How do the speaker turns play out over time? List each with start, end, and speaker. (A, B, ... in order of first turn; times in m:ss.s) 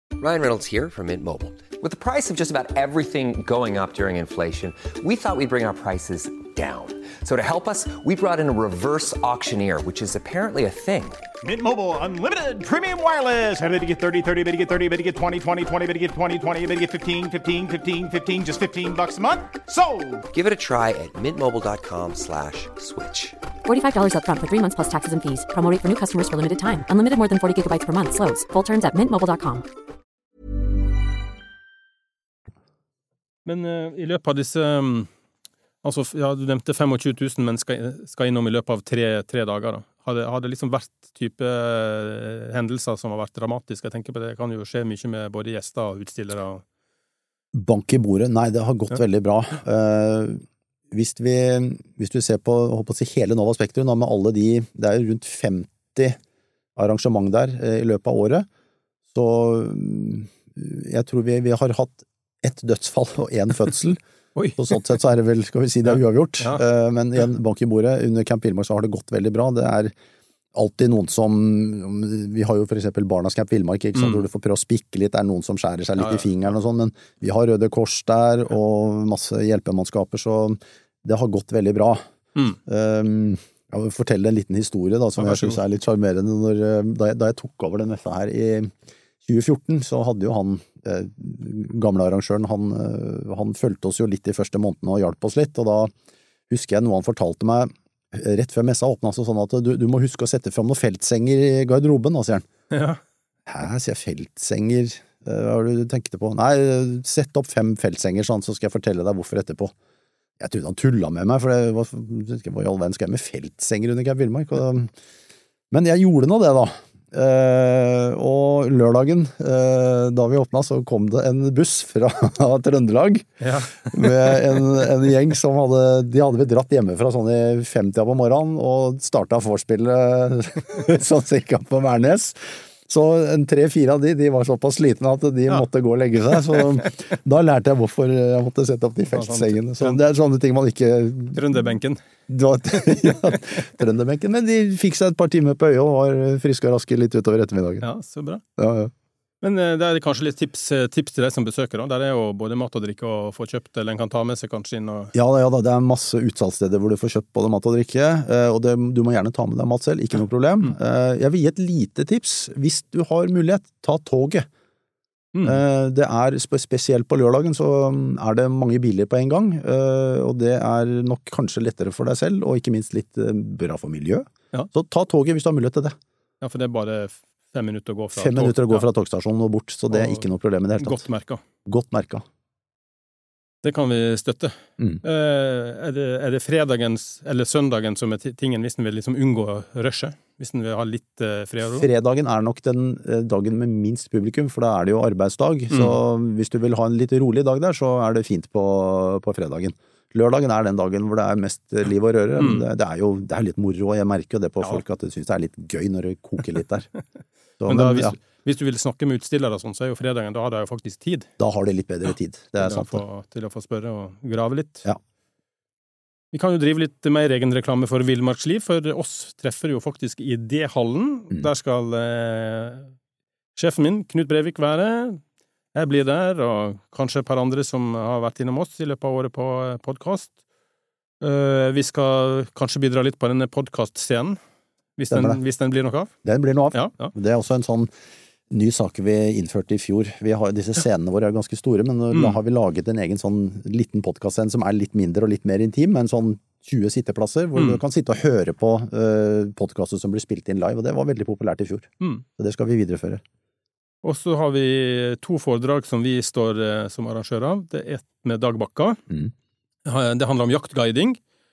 0:00.2-0:11.2 A
0:11.4-0:20.2 B
0:20.3-0:23.4 A
0:23.6-0:29.6 C
0:33.4-0:35.1 D
0:35.8-0:46.6 D
0:47.5-0:56.2 E
0:56.8-0:58.5 E
0:59.1-1:04.0 E
1:04.6-1:09.9 E
1:10.5-1:22.0 E
1:14.0-1:14.2 D
1:16.0-1:16.2 D
1:22.6-1:28.7 E
1:25.2-1:25.6 D
1:29.2-1:35.9 E
1:36.5-1:42.5 E
1:42.7-1:43.0 D
1:43.4-1:49.7 E
1:50.4-1:54.9 E
1:55.7-2:21.5 E
2:03.4-2:04.4 D
2:19.1-2:20.0 D
2:21.3-2:22.0 D
2:22.3-2:27.8 E
2:27.8-2:28.4 D
2:28.6-2:28.9 E
2:29.4-2:35.1 D
2:35.1-2:44.5 E
2:45.3-2:45.6 D
2:45.4-2:56.0 E
2:56.4-2:58.8 D
2:58.1-3:01.0 E
2:59.9-3:00.2 D
3:00.8-3:01.4 D
3:01.6-3:02.2 E
3:03.6-3:11.9 D
3:11.6-3:26.9 E
3:15.7-3:16.0 D
3:22.4-3:22.6 D
3:27.6-3:28.2 E
3:27.7-3:31.3 D
3:31.4-3:33.0 E
3:32.6-3:34.8 D
3:36.3-3:42.9 D
3:43.6-3:45.2 D
3:45.7-3:50.3 D
3:51.2-3:54.4 D
3:55.0-3:56.1 D
3:55.1-3:55.4 E
3:56.2-3:57.9 E
3:56.7-3:57.1 D
3:58.5-4:13.2 E
4:02.1-4:02.4 D
4:07.6-4:07.8 D
4:14.0-4:19.0 D
4:19.8-4:21.2 D